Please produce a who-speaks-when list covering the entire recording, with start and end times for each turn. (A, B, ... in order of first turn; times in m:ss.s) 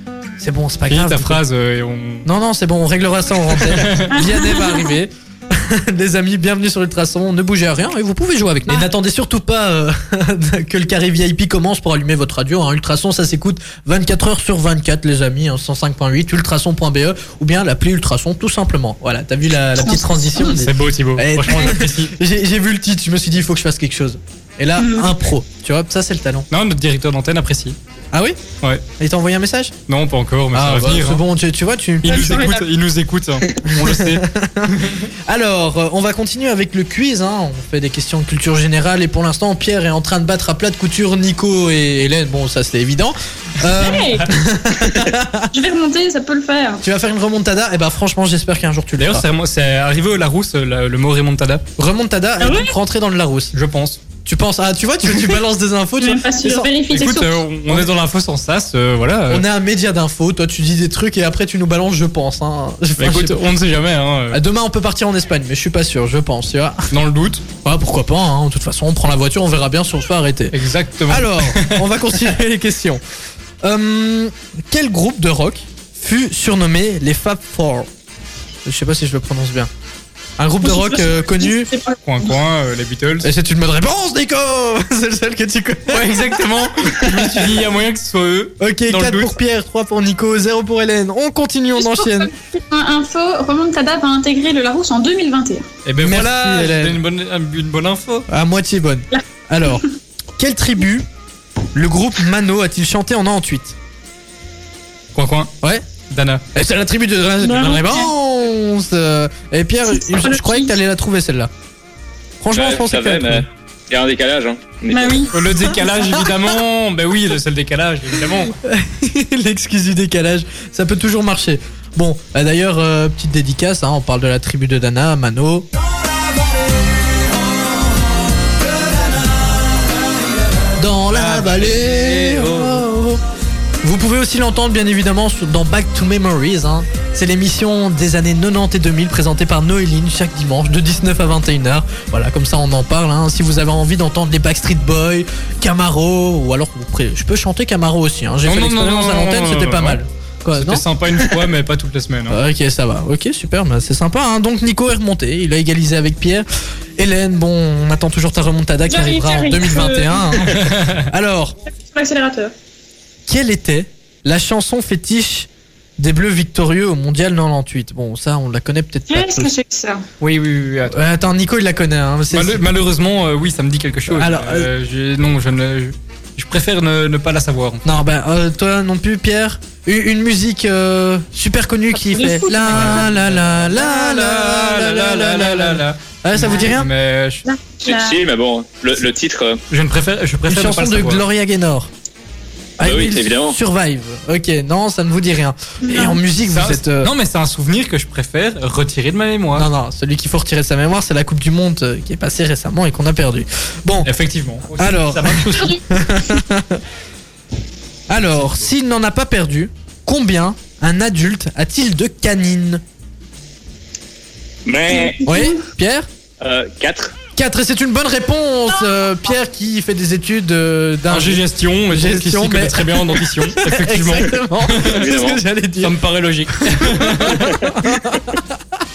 0:00.4-0:01.4 A
0:00.9-0:02.3 B
0:02.2-0:26.5 A
0:03.5-0:04.2 B
0:04.1-0:05.0 C
0:19.8-0:20.5 C
0:20.5-0:22.1 B
0:24.8-0:25.1 C
0:26.5-0:27.8 B
0:28.1-0:28.4 A
0:29.0-0:29.7 A
0:29.9-0:31.2 B
0:30.5-0:32.5 A
0:32.0-0:35.1 B
0:32.0-0:32.6 C
0:33.6-0:45.5 A
0:43.8-0:44.4 C
0:45.5-0:46.8 C
0:46.8-0:49.2 A
0:49.0-0:51.6 B
0:51.8-0:53.5 A
0:52.4-0:52.7 C
0:53.5-0:54.0 B
0:54.2-0:56.7 A
0:56.0-0:57.4 C
0:56.9-0:59.4 B
0:59.3-1:03.4 A
1:03.0-1:04.4 B
1:04.3-1:06.9 A
1:06.9-1:07.4 B
1:07.6-1:10.5 A
1:10.5-1:12.3 B
1:11.1-1:13.0 A
1:13.6-1:17.9 A
1:18.6-1:19.7 A
1:20.4-1:21.7 A
1:20.6-1:22.3 C
1:22.0-1:23.3 B
1:23.2-1:27.6 A
1:25.9-1:29.3 B
1:28.6-1:32.3 A
1:31.8-1:35.7 C
1:35.8-1:38.2 B
1:36.0-1:37.0 A
1:38.3-1:39.8 A
1:40.4-1:41.0 A
1:41.7-1:43.7 A
1:45.1-1:46.4 B
1:46.5-1:51.5 A
1:47.4-1:48.1 C
1:49.9-1:50.7 C
1:52.4-1:53.4 A
1:52.5-1:55.3 D
1:54.9-1:55.4 C
1:55.3-1:58.5 B
1:55.7-1:56.2 A
1:58.5-2:05.7 A
2:10.8-2:13.2 A
2:11.1-2:12.8 B
2:13.8-2:30.8 A
2:28.4-2:30.0 B
2:30.5-2:32.4 B
2:32.3-2:36.4 A
2:37.0-2:41.6 A
2:38.9-2:40.5 C
2:40.5-2:41.1 B
2:41.8-2:42.5 C
2:43.3-2:49.5 A
2:49.1-2:50.0 C
2:50.2-2:51.0 B
2:50.9-2:52.6 A
2:52.3-2:58.0 B
2:54.1-2:54.7 A
2:57.8-3:06.9 A
3:01.9-3:03.0 C
3:02.7-3:07.4 B
3:07.4-3:08.2 C
3:07.8-3:09.6 D
3:09.7-3:11.2 B
3:10.5-3:11.9 A
3:12.8-3:17.1 A
3:12.8-3:13.6 D
3:15.8-3:16.2 C
3:16.5-3:19.7 B
3:19.6-3:24.1 A
3:24.0-3:25.8 B
3:24.8-3:26.8 A
3:28.1-3:32.8 A
3:28.3-3:28.7 B
3:34.6-3:35.2 D
3:34.9-3:35.6 C
3:35.2-3:36.1 A
3:36.4-3:37.2 D
3:37.4-3:46.0 A
3:41.1-3:45.1 B
3:44.8-3:45.4 D
3:45.8-3:47.6 B
3:46.5-3:48.6 A